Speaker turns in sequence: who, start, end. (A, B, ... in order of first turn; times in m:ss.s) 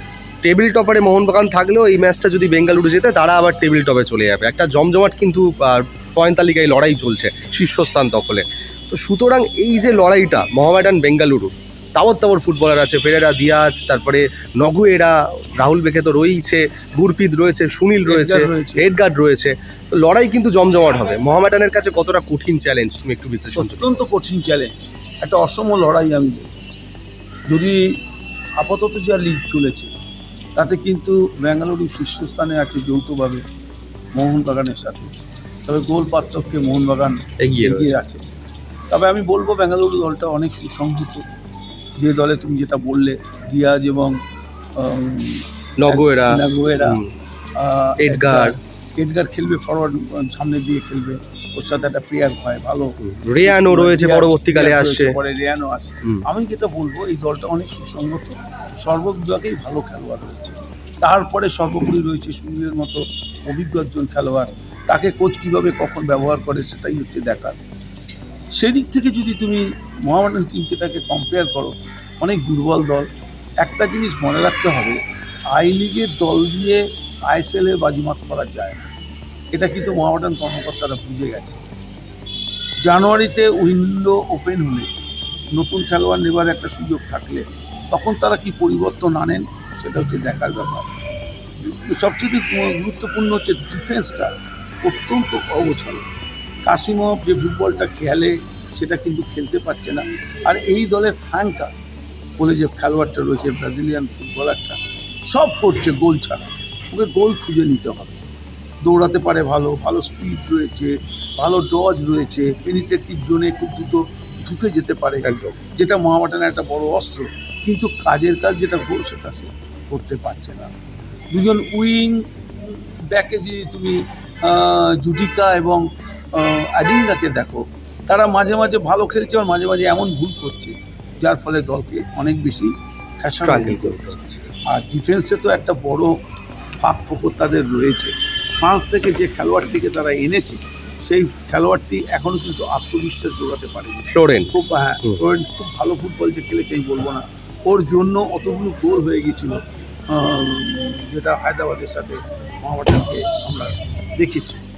0:00.4-0:24.0 A
0:18.1-0:18.9 B
0:23.6-0:26.5 B
0:27.5-0:27.8 B
0:28.6-0:30.0 B
0:30.6-0:33.4 B
0:34.1-0:35.2 B
0:35.7-0:38.2 B
0:37.4-0:38.0 A
0:38.9-0:41.2 B
0:42.0-0:44.2 B
0:44.8-0:47.0 B
0:45.8-0:47.1 A
0:47.6-1:07.6 B
0:48.0-0:48.6 A
0:53.0-0:55.2 A
1:08.6-1:13.1 B
1:13.6-1:15.0 B
1:15.5-1:18.9 B
1:19.5-1:21.6 B
1:22.8-1:24.9 B
1:25.5-1:30.9 B
1:31.6-1:34.3 B
1:34.8-1:36.0 B
1:36.6-1:41.7 B
1:42.4-1:48.2 B
1:48.8-2:00.7 B
1:55.2-1:55.6 A
2:01.3-2:16.1 B
2:13.4-2:14.4 A
2:16.8-2:34.6 B
2:24.1-2:24.5 A